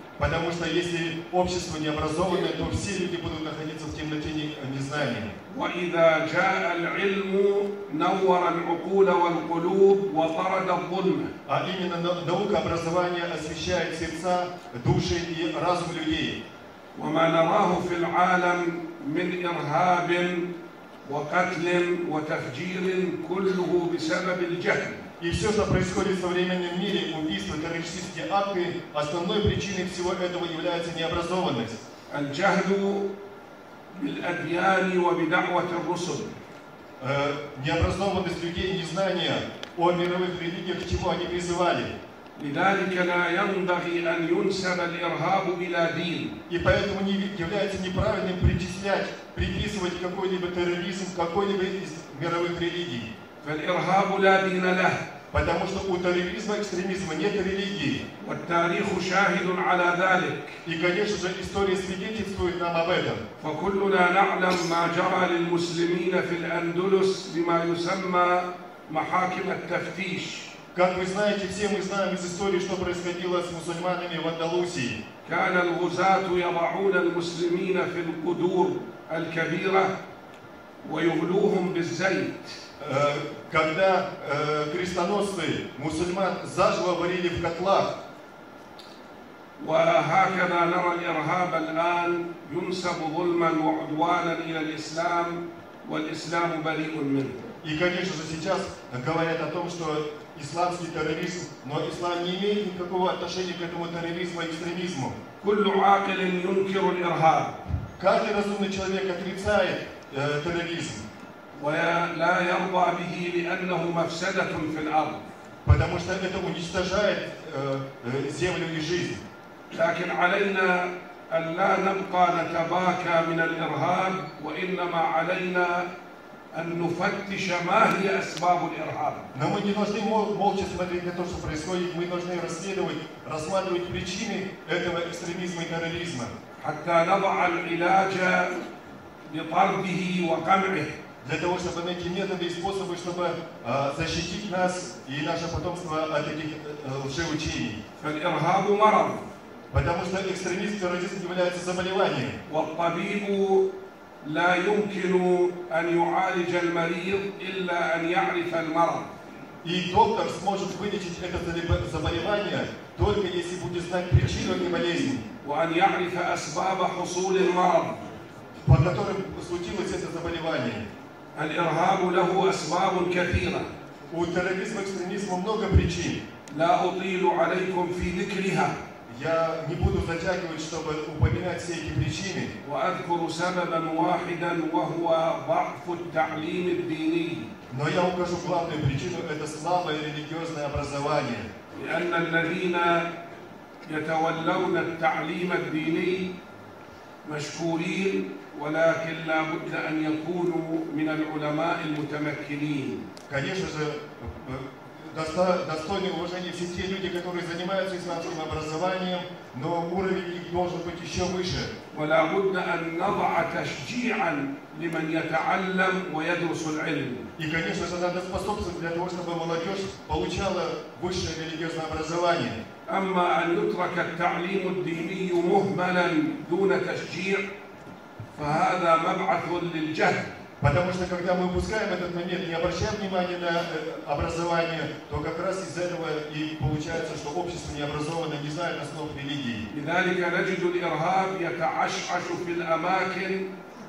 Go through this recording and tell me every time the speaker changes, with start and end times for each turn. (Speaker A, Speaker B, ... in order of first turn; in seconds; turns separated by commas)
Speaker A: 0.2-5.3, Speaker B: 5.5-11.3, Speaker A: 11.5-16.4, Speaker B: 16.9-20.5, Speaker B: 21.0-25.1, Speaker A: 25.2-31.8, Speaker B: 32.1-33.1, Speaker B: 33.9-36.4, Speaker A: 37.0-41.9, Speaker B: 42.4-46.4, Speaker A: 46.5-53.1, Speaker B: 53.4-55.1, Speaker A: 55.3-58.0, Speaker B: 58.2-60.6, Speaker A: 60.7-63.2, Speaker B: 63.4-70.5, Speaker A: 70.7-75.0, Speaker B: 75.2-79.9, Speaker B: 80.8-82.6, Speaker A: 82.8-88.0, Speaker B: 89.6-97.5, Speaker A: 97.6-105.2, Speaker B: 105.4-107.7, Speaker A: 108.0-111.0, Speaker B: 111.6-115.3, Speaker A: 115.7-119.2, Speaker B: 119.7-125.9, Speaker B: 126.5-129.3, Speaker A: 129.3-136.3, Speaker B: 136.6-138.6, Speaker B: 139.3-141.0, Speaker A: 141.2-147.8, Speaker B: 148.0-149.3, Speaker A: 149.7-152.4, Speaker B: 152.5-153.7, Speaker B: 154.2-159.1, Speaker A: 159.6-165.2, Speaker B: 165.4-168.1, Speaker A: 168.6-170.9, Speaker B: 171.3-173.7, Speaker A: 174.1-176.2, Speaker B: 176.5-178.8, Speaker A: 179.1-182.5, Speaker B: 182.6-187.5, Speaker A: 187.7-191.5, Speaker B: 191.7-193.1, Speaker B: 193.8-196.3, Speaker B: 197.2-203.1, Speaker A: 203.3-211.7, Speaker B: 211.9-217.3, Speaker A: 217.4-222.6, Speaker B: 222.9-227.5, Speaker B: 228.3-230.4, Speaker A: 230.6-239.7, Speaker B: 239.7-243.5